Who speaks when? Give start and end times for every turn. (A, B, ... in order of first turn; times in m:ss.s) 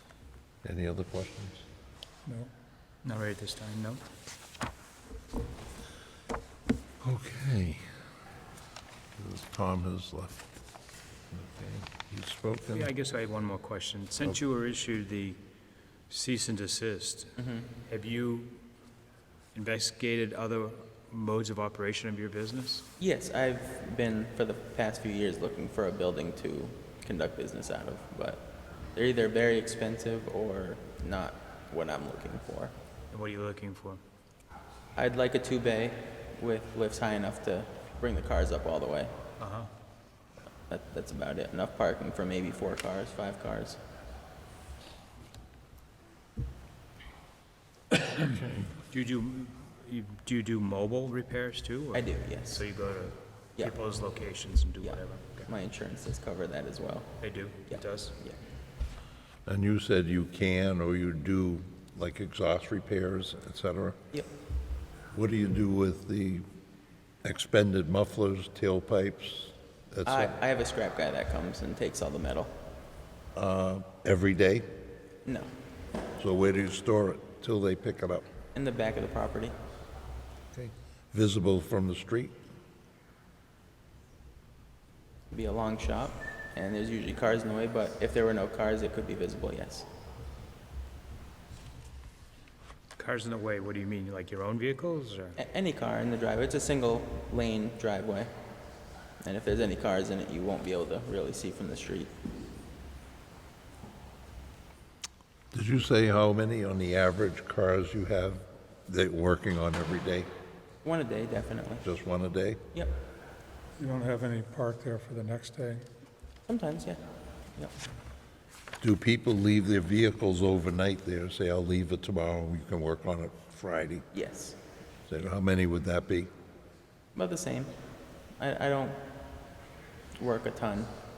0:00.6-0:01.6 A
0:02.2-0:02.5 B
0:03.0-0:04.0 C
0:07.0-0:07.9 A
0:09.2-0:10.4 A
0:11.3-0:12.9 A
0:12.7-0:15.4 C
0:16.1-0:17.3 C
0:17.4-0:17.7 D
0:17.9-0:18.6 C
0:19.5-0:22.8 C
0:23.0-0:32.7 D
0:33.1-0:34.0 C
0:35.0-0:39.1 D
0:39.4-0:39.7 C
0:40.7-0:43.8 D
0:48.8-0:55.5 C
0:51.9-0:52.6 D
0:54.8-0:58.4 D
0:57.2-0:58.2 C
0:59.5-1:04.0 A
1:05.1-1:06.4 A
1:07.2-1:10.4 A
1:10.1-1:12.5 D
1:13.4-1:14.7 A
1:16.2-1:18.2 A
1:18.5-1:19.5 D
1:20.5-1:22.4 A
1:25.3-1:29.8 D
1:33.0-1:35.4 C
1:35.4-1:38.3 D
1:39.2-1:42.1 D
1:45.5-1:50.3 A
1:50.8-1:51.8 D
1:51.8-1:52.6 A
1:53.8-1:55.9 B
1:56.5-1:57.0 D
1:58.8-2:04.0 A
2:04.1-2:04.6 D
2:05.1-2:06.3 A
2:07.2-2:07.7 D
2:08.4-2:09.0 D
2:10.2-2:10.9 D